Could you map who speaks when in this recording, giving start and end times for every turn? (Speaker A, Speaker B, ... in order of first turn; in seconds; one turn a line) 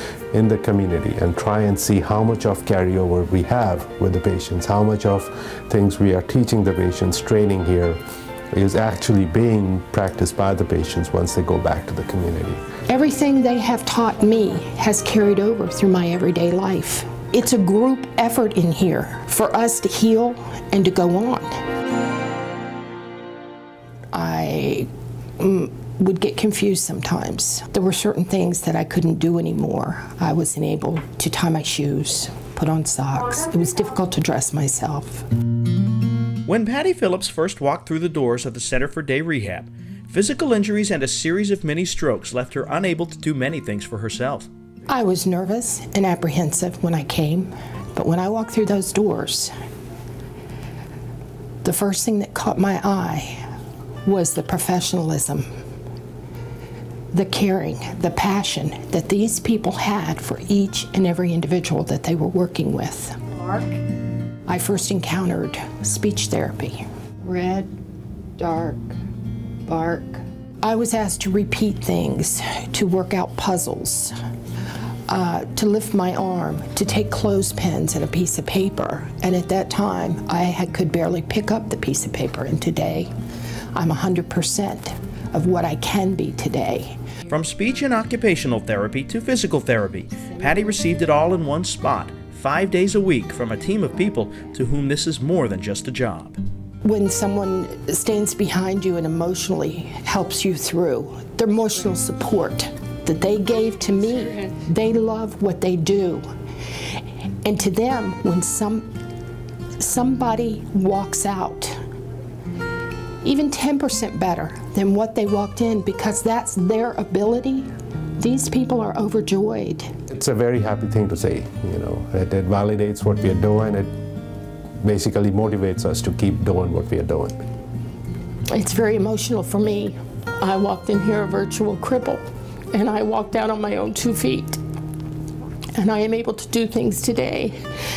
Speaker A: 0.3-8.0
Speaker A: 8.5-12.6
Speaker B: 12.9-21.6
Speaker B: 24.1-24.9
Speaker B: 25.4-35.2
Speaker C: 36.5-44.5
Speaker B: 44.9-49.5
Speaker B: 51.6-53.4
Speaker B: 54.0-55.5
Speaker B: 57.1-63.8
Speaker B: 64.5-67.7
Speaker B: 68.4-69.0
Speaker B: 69.7-74.1
Speaker B: 75.1-83.1
Speaker B: 83.7-87.0
Speaker C: 87.3-96.4
Speaker B: 90.3-90.6
Speaker B: 96.8-106.3
Speaker B: 107.5-108.9
Speaker B: 109.8-111.8
Speaker B: 113.2-117.7
Speaker B: 118.2-119.9
Speaker A: 120.1-123.9
Speaker A: 124.8-127.4
Speaker B: 128.5-134.6
Speaker B: 135.8-137.6